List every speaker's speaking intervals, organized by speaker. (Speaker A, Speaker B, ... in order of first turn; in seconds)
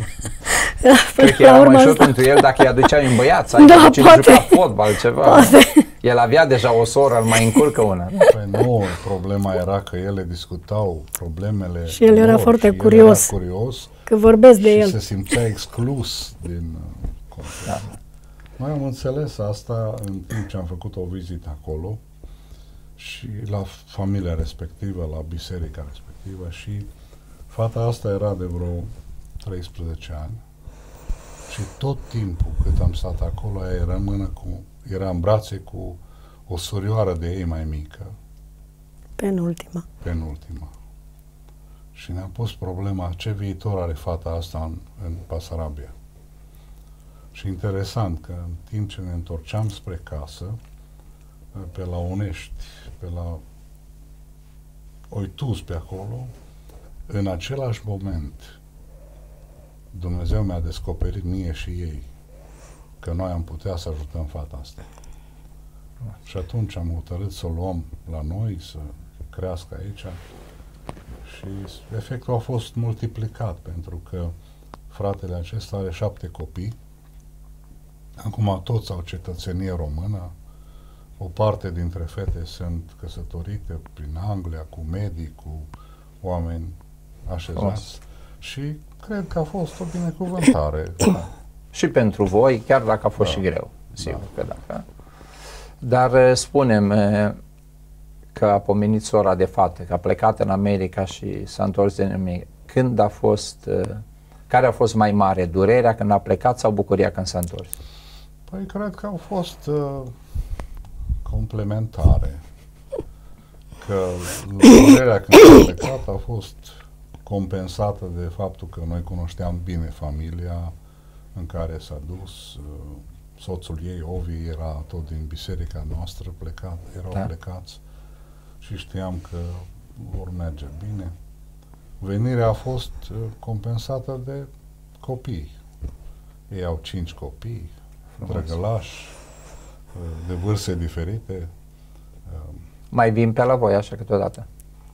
Speaker A: 0.5-2.3, 3.6-4.6, 5.2-5.9, 11.9-13.3, 14.1-15.0, 39.2-39.9
Speaker B: 1.2-8.3, 91.7-94.8, 95.8-97.4, 98.3-107.7, 138.2-138.5, 142.9-144.4
Speaker C: 8.2-13.9, 14.6-18.0, 18.6-22.0, 23.0-26.9, 27.5-30.4, 31.5-38.1, 40.0-40.7, 41.9-45.9, 47.3-50.6, 51.5-53.4, 55.1-56.3, 57.1-58.5, 59.9-62.1, 63.0-64.8, 66.2-70.2, 71.2-74.3, 74.9-76.8, 78.2-80.3, 81.2-85.7, 86.2-91.3, 108.5-110.1, 111.2-112.4, 113.8-120.7, 121.3-127.8, 128.6-131.1, 132.0-134.5, 135.0-135.5, 136.5-139.2, 139.9-141.5, 142.2-142.6